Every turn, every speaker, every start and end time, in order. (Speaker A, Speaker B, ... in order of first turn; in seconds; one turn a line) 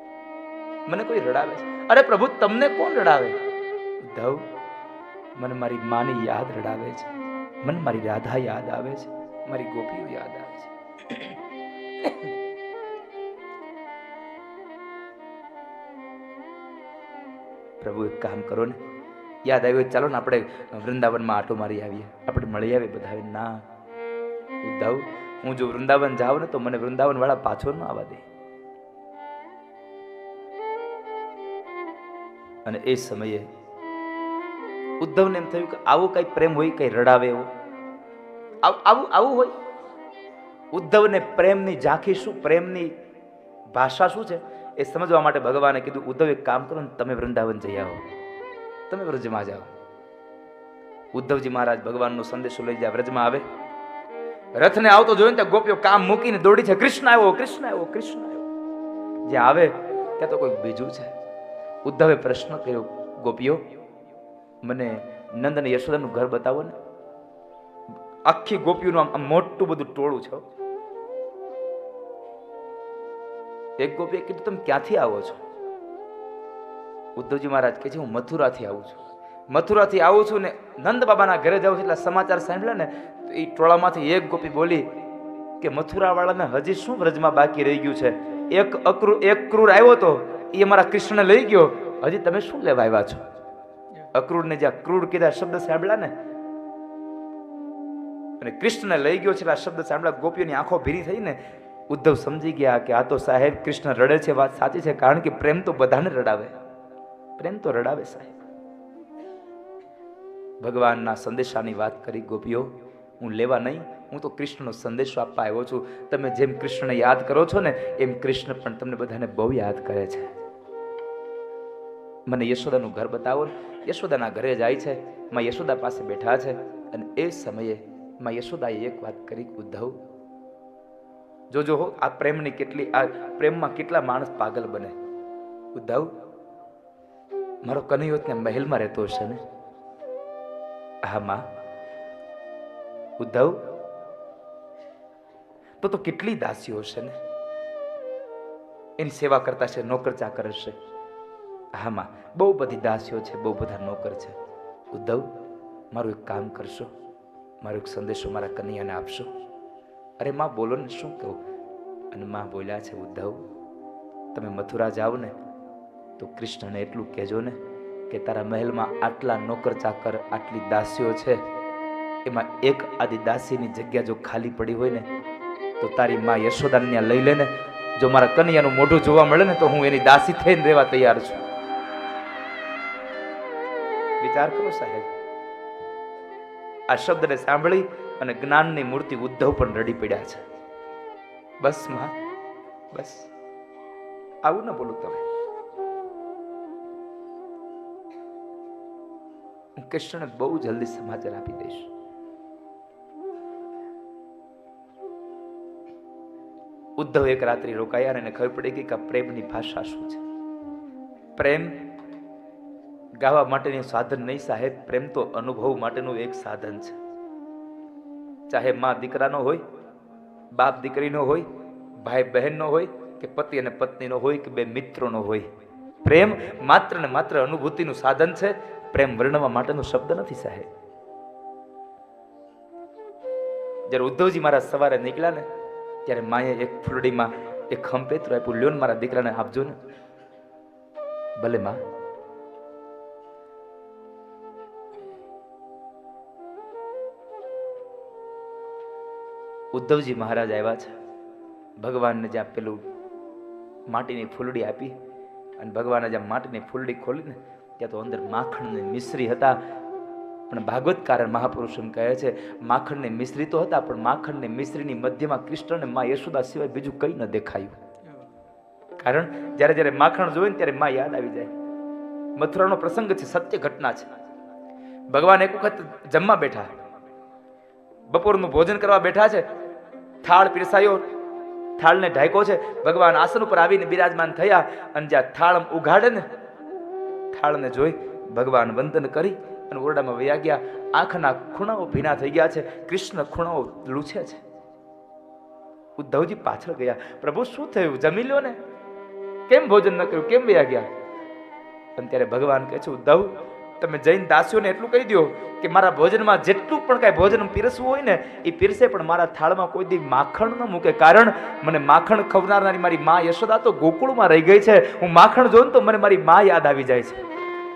Speaker A: 0.9-3.4
Speaker A: 4.0-4.4
Speaker A: 5.3-7.1
Speaker A: 7.6-11.4
Speaker A: 12.0-12.3
Speaker A: 17.8-18.8
Speaker A: 19.5-23.6
Speaker A: 24.6-28.2
Speaker A: 32.6-33.5
Speaker A: 35.0-37.5
Speaker A: 38.6-39.5
Speaker A: 40.7-42.9
Speaker A: 43.7-48.1
Speaker A: 48.9-49.7
Speaker A: 51.1-53.4
Speaker A: 54.6-58.5
Speaker A: 59.3-61.1
Speaker A: 61.8-63.6
Speaker A: 64.6-66.7
Speaker A: 68.3-70.4
Speaker A: 73.8-75.4
Speaker A: 77.2-79.0
Speaker A: 79.5-84.9
Speaker A: 85.6-93.2
Speaker A: 94.1-96.1
Speaker A: 98.4-101.4
Speaker A: 101.9-106.5
Speaker A: 107.4-108.3
Speaker A: 110.6-120.3
Speaker A: 122.3-129.9
Speaker A: 131.5-135.0
Speaker A: 135.7-136.1
Speaker A: 137.6-139.4
Speaker A: 141.0-141.4
Speaker A: 143.2-143.6
Speaker A: 145.8-147.2
Speaker A: 149.0-150.8
Speaker A: 151.7-154.3
Speaker A: 154.9-155.3
Speaker A: 155.9-156.9
Speaker A: 157.6-159.3
Speaker A: 160.2-161.4
Speaker A: 162.1-163.4
Speaker A: 164.3-165.3
Speaker A: 166.2-167.6
Speaker A: 168.1-171.4
Speaker A: 172.2-175.1
Speaker A: 175.8-181.4
Speaker A: 184.2-185.1
Speaker A: 186.9-190.4
Speaker A: 191.6-192.1
Speaker A: 192.9-193.3
Speaker A: 194.4-195.2
Speaker A: 199.8-201.9
Speaker A: 207.0-210.2
Speaker A: 211.4-211.8
Speaker A: 213.2-217.0
Speaker A: 218.5-219.6
Speaker A: 220.5-221.5
Speaker A: 222.0-225.5
Speaker A: 226.0-230.7
Speaker A: 233.9-235.4
Speaker A: 236.1-239.8
Speaker A: 241.4-241.8
Speaker A: 249.7-250.9
Speaker A: 251.8-252.8
Speaker A: 253.9-254.9
Speaker A: 255.6-259.6
Speaker A: 260.5-267.8
Speaker A: 269.0-271.5
Speaker A: 272.4-274.1
Speaker A: 275.1-276.7
Speaker A: 278.1-279.5
Speaker A: 280.2-281.1
Speaker A: 281.8-286.3
Speaker A: 287.3-294.4
Speaker A: 296.0-298.6
Speaker A: 299.5-300.9
Speaker A: 302.0-317.2